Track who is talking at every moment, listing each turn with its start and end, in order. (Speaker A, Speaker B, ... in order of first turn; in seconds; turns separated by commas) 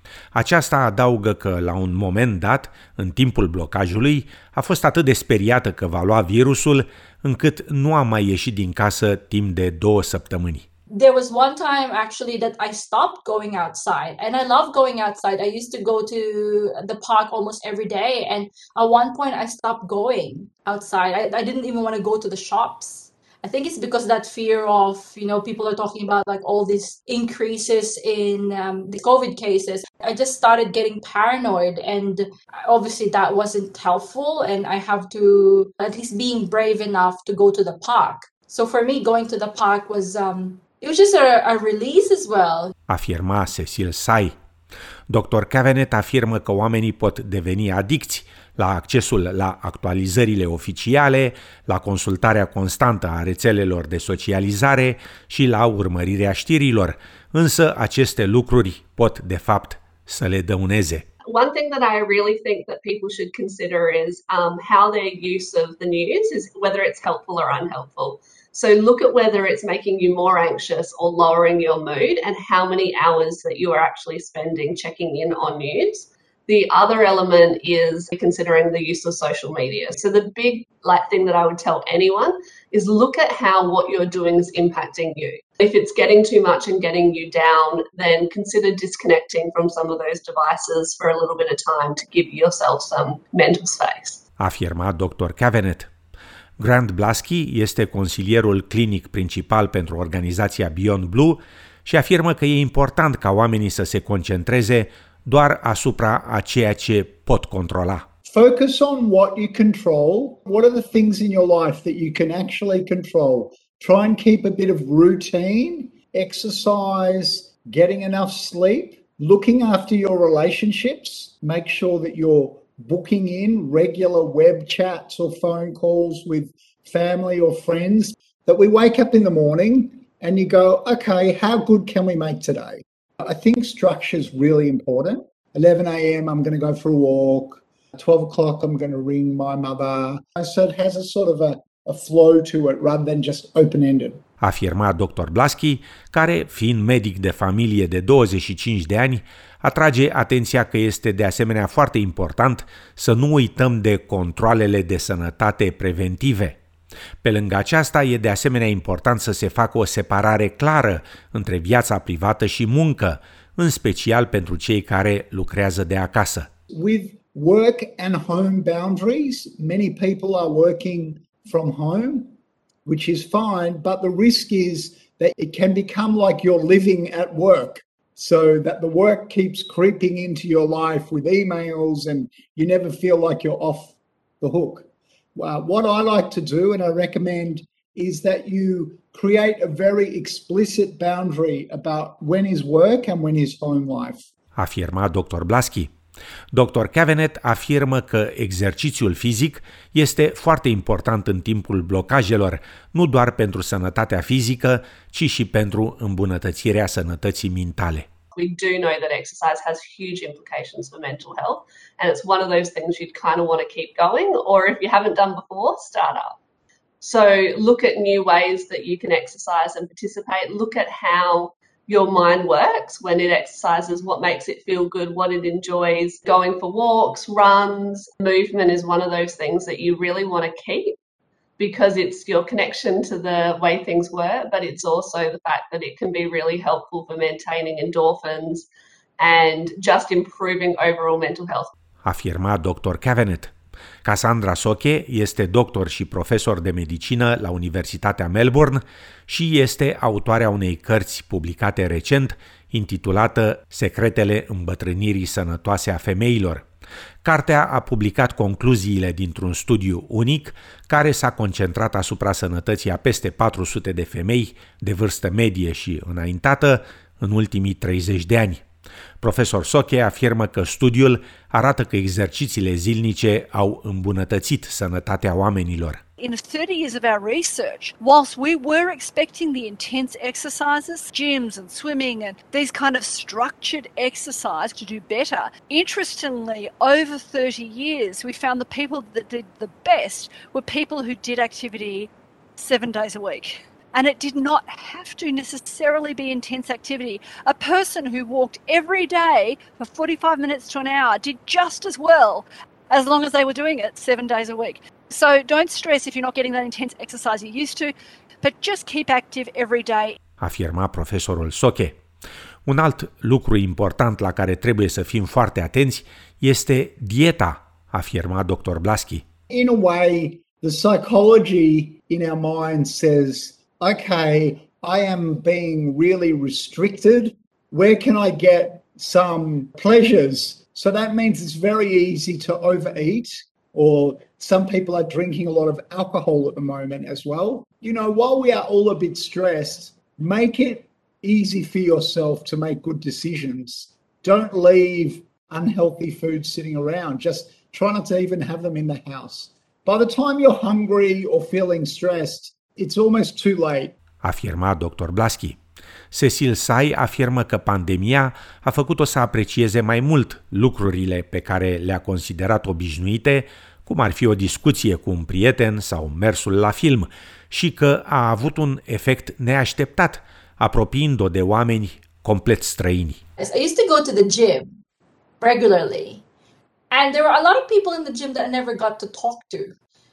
Speaker A: 0.3-10.7, Speaker B: 10.9-42.7, Speaker A: 42.9-44.3, Speaker A: 45.1-61.0, Speaker C: 61.3-94.2, Speaker A: 94.4-95.9, Speaker A: 96.6-108.0, Speaker D: 108.2-144.2, Speaker A: 144.4-156.6, Speaker A: 157.2-166.5, Speaker D: 166.7-194.3, Speaker A: 194.6-195.9, Speaker A: 196.5-208.1, Speaker C: 208.3-216.4, Speaker C: 217.0-231.0, Speaker C: 231.6-238.7, Speaker C: 239.2-241.7, Speaker A: 242.1-243.5, Speaker A: 244.0-256.7, Speaker A: 257.2-268.6, Speaker A: 269.2-276.0, Speaker E: 276.2-310.2, Speaker A: 310.4-312.0, Speaker A: 312.7-319.2, Speaker D: 319.5-354.0, Speaker A: 354.2-355.6, Speaker A: 356.1-373.2, Speaker B: 373.4-374.8, Speaker B: 375.4-376.2, Speaker B: 376.9-379.8